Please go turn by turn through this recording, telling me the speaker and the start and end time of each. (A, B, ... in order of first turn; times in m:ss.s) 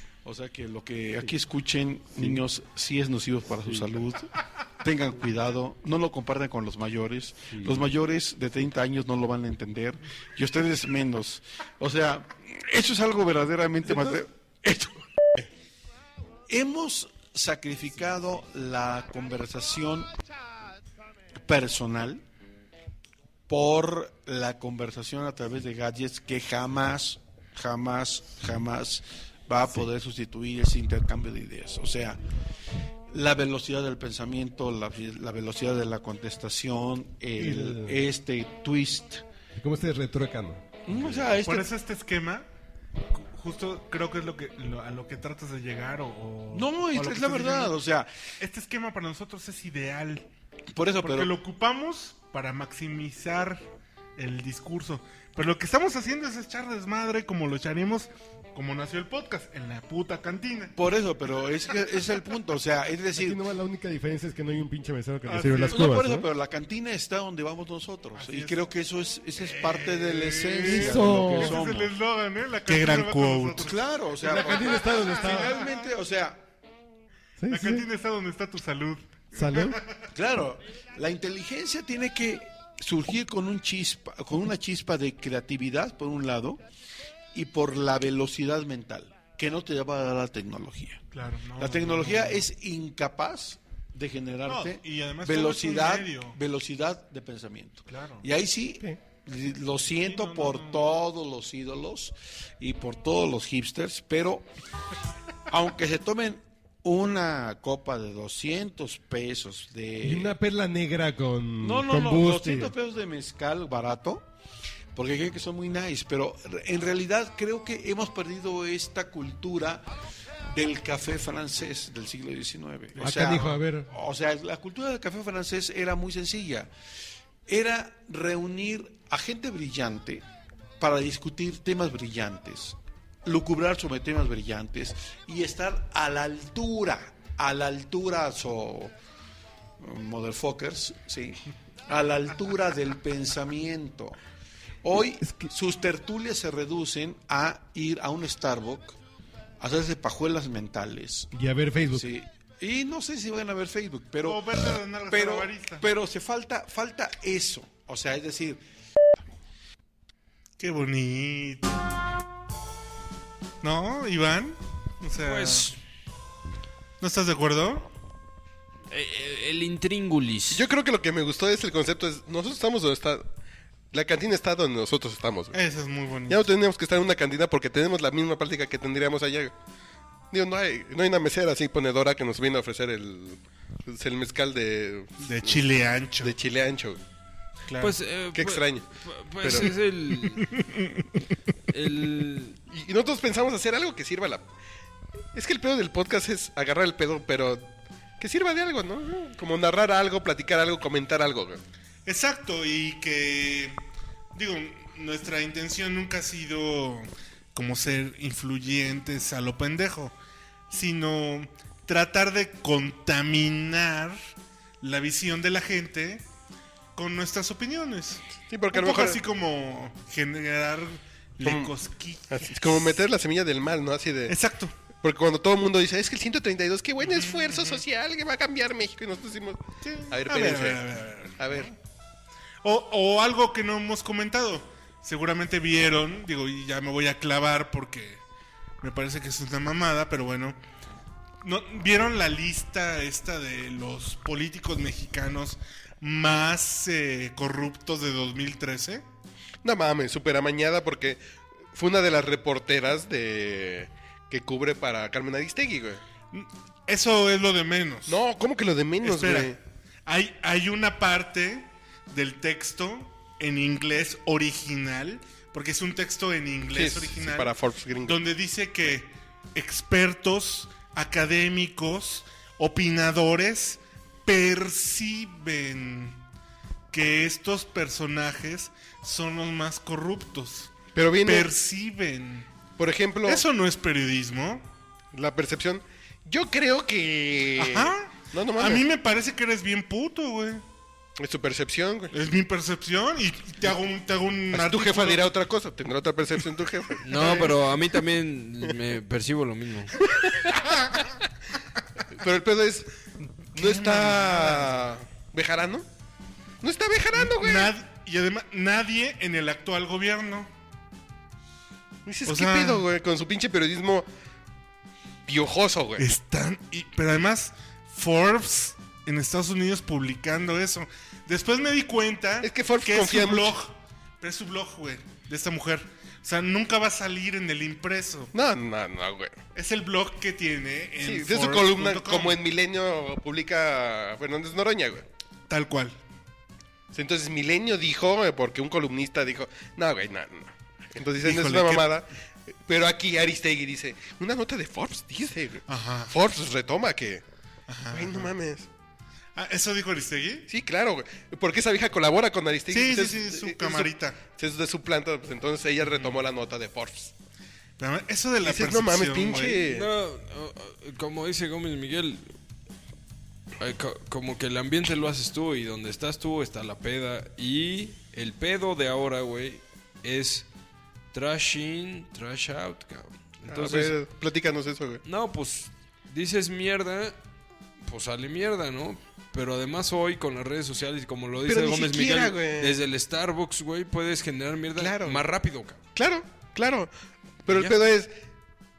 0:00.2-0:04.3 A
0:03.6-0:04.0 B
0:04.8-0:15.1 A
0:07.5-0:07.9 B
0:16.5-0:20.1 A
0:21.4-0:22.2 A
0:23.5-0:32.2 A
0:33.1-0:39.2 A
0:37.4-0:38.1 B
0:39.6-0:41.3 B
0:40.9-0:41.7 A
0:41.4-0:42.5 C
0:43.1-0:47.8 C
0:46.5-0:48.1 A
0:48.4-0:50.3 C
0:50.7-0:51.3 A
0:51.0-0:53.6 C
0:54.2-1:00.7 C
1:00.8-1:03.4 A
1:03.2-1:06.3 B
1:05.2-1:05.9 C
1:05.5-1:11.9 A
1:08.1-1:08.6 C
1:09.4-1:13.8 C
1:10.5-1:11.9 B
1:13.5-1:16.4 A
1:14.1-1:15.8 B
1:15.0-1:15.6 C
1:17.4-1:17.9 B
1:17.5-1:19.8 C
1:19.3-1:19.8 B
1:20.1-1:26.6 A
1:27.3-1:31.0 A
1:31.1-1:32.4 C
1:31.6-1:44.5 A
1:34.4-1:36.4 C
1:37.9-1:38.3 C
1:40.0-1:40.9 C
1:45.5-1:50.4 A
1:50.0-1:52.7 B
1:51.6-1:54.2 A
1:54.9-1:59.9 A
2:00.5-2:06.7 A
2:03.0-2:03.9 B
2:07.5-2:10.2 A
2:10.8-2:18.9 A
2:19.8-2:24.2 A
2:24.8-2:29.0 A
2:25.2-2:25.5 B
2:29.6-2:31.3 A
2:31.3-2:32.1 B
2:31.9-2:34.5 A
2:34.2-2:35.9 C
2:35.1-2:38.6 A
2:40.6-2:41.7 C
2:43.6-2:45.7 C
2:45.2-2:45.8 D
2:47.0-2:47.9 C
2:48.9-2:50.6 D
2:50.5-2:53.2 E
2:53.9-2:55.6 E
2:55.5-2:56.5 C
2:56.3-2:59.5 E
3:00.3-3:05.6 E
3:05.2-3:06.4 C
3:06.2-3:07.0 E
3:07.7-3:08.0 C
3:07.8-3:10.6 D
3:08.3-3:08.8 E
3:09.4-3:09.7 E
3:10.4-3:11.0 C
3:11.7-3:12.6 D
3:12.7-3:14.5 E
3:15.3-3:21.6 E
3:22.1-3:30.1 C
3:30.7-3:34.2 C
3:34.8-3:36.2 C
3:36.9-3:43.1 C
3:38.5-3:39.2 E
3:41.4-3:41.7 E
3:42.3-3:44.4 E
3:44.3-3:44.8 C
3:45.0-3:50.8 E
3:47.0-3:47.8 C
3:49.8-3:51.8 C
3:51.4-3:51.7 E
3:52.6-3:58.2 C
3:58.8-4:00.6 C
4:01.4-4:09.0 C
4:09.6-4:11.2 E
4:11.7-4:16.0 E
4:16.3-4:18.2 C
4:18.1-4:19.6 E
4:19.0-4:36.2 C
4:26.7-4:28.2 E
4:36.9-4:42.5 C
4:40.9-4:41.5 E
4:42.8-4:43.4 E
4:43.2-4:44.7 C
4:45.1-4:48.8 E
4:47.6-4:50.6 C
4:51.2-4:52.1 E
4:52.1-4:55.3 C
4:54.5-4:57.5 E
4:57.0-5:00.0 D
4:57.1-4:57.5 C
5:00.0-5:01.1 E
5:02.1-5:03.0 E
5:03.5-5:05.8 E
5:03.6-5:04.8 C
5:06.6-5:07.8 E
5:07.1-5:10.5 C
5:12.0-5:14.1 E
5:12.2-5:12.9 C
5:15.2-5:16.0 E
5:16.0-5:28.3 C
5:22.4-5:23.6 E
5:28.3-5:29.4 E
5:29.5-5:32.4 C
5:31.0-5:35.1 E
5:35.5-5:36.0 C
5:36.9-5:42.1 E
5:41.2-5:42.0 C
5:42.6-5:47.2 E
5:45.7-5:46.2 C
5:47.7-5:48.3 C
5:47.9-5:48.7 E
5:49.4-5:50.5 C
5:50.5-5:57.1 E
5:52.7-5:54.2 C
5:55.9-5:56.2 C
5:57.8-5:59.7 C
5:58.4-5:59.8 E
5:59.7-6:02.2 D
6:03.6-6:10.5 D
6:11.1-6:13.9 D
6:13.5-6:15.0 E
6:15.0-6:17.1 D
6:17.8-6:25.8 D
6:21.4-6:22.8 E
6:24.8-6:25.2 E
6:25.9-6:26.9 E
6:27.5-6:28.1 E
6:27.5-6:27.8 D